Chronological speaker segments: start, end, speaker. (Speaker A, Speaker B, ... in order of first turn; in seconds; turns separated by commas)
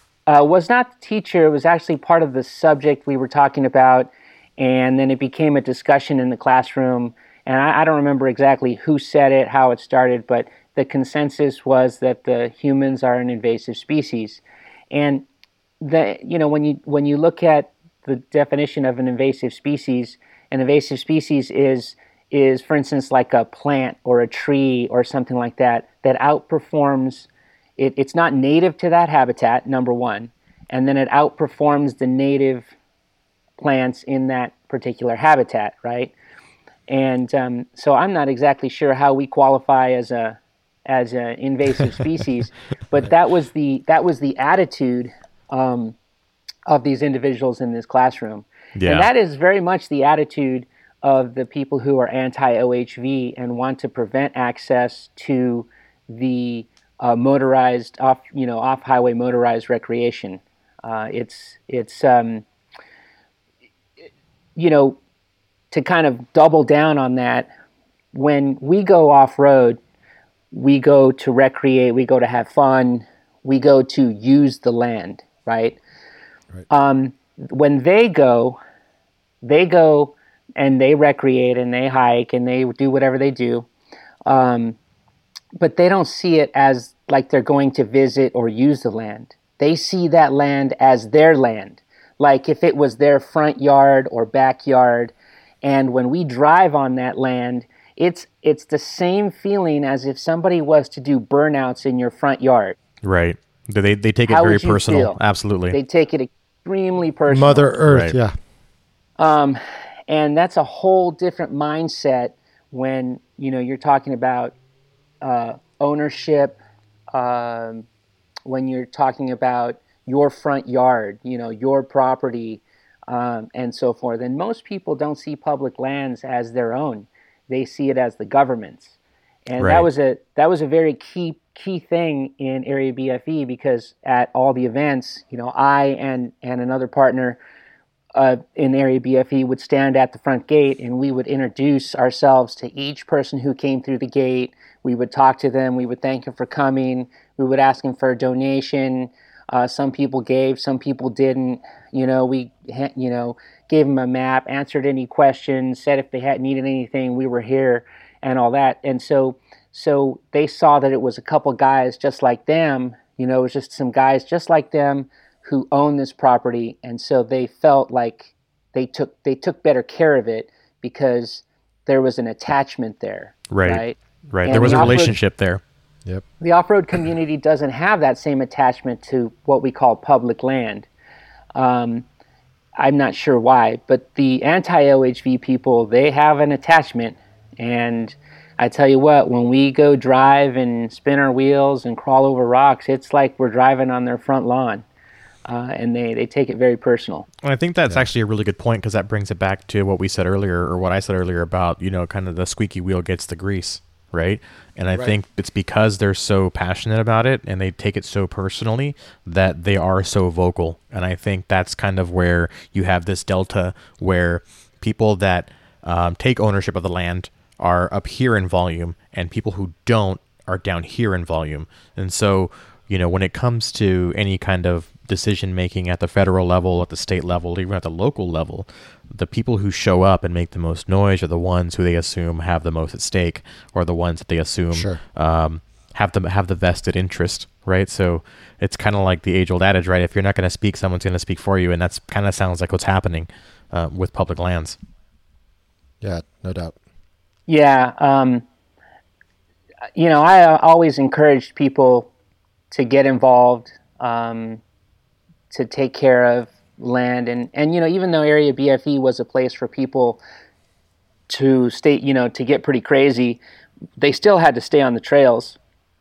Speaker A: 0.3-15.2, Speaker A: 15.8-32.7, Speaker A: 33.6-36.1, Speaker A: 36.9-46.0, Speaker A: 46.7-62.4, Speaker B: 48.8-49.1, Speaker A: 64.5-65.0, Speaker A: 65.7-67.5, Speaker A: 68.1-69.8, Speaker A: 70.5-75.8, Speaker A: 76.7-78.6, Speaker A: 79.4-83.7, Speaker A: 84.2-84.8, Speaker A: 85.5-95.1, Speaker A: 95.6-102.8, Speaker B: 103.0-105.8, Speaker A: 104.3-105.2, Speaker A: 105.7-107.7, Speaker C: 107.3-108.3, Speaker B: 107.9-108.2, Speaker A: 109.2-114.5, Speaker A: 115.2-116.6, Speaker A: 117.1-117.8, Speaker A: 118.5-128.9, Speaker A: 129.5-137.4, Speaker B: 129.6-129.9, Speaker A: 138.1-175.2, Speaker B: 173.5-175.6, Speaker C: 174.5-175.1, Speaker A: 176.4-180.9, Speaker A: 181.5-182.0, Speaker A: 182.8-194.8, Speaker A: 195.4-197.3, Speaker B: 197.4-244.8, Speaker C: 234.7-235.0, Speaker C: 246.0-246.7, Speaker A: 247.5-248.4, Speaker A: 249.9-252.1, Speaker A: 252.7-254.6, Speaker A: 255.5-260.2, Speaker A: 261.3-263.4, Speaker A: 264.0-265.6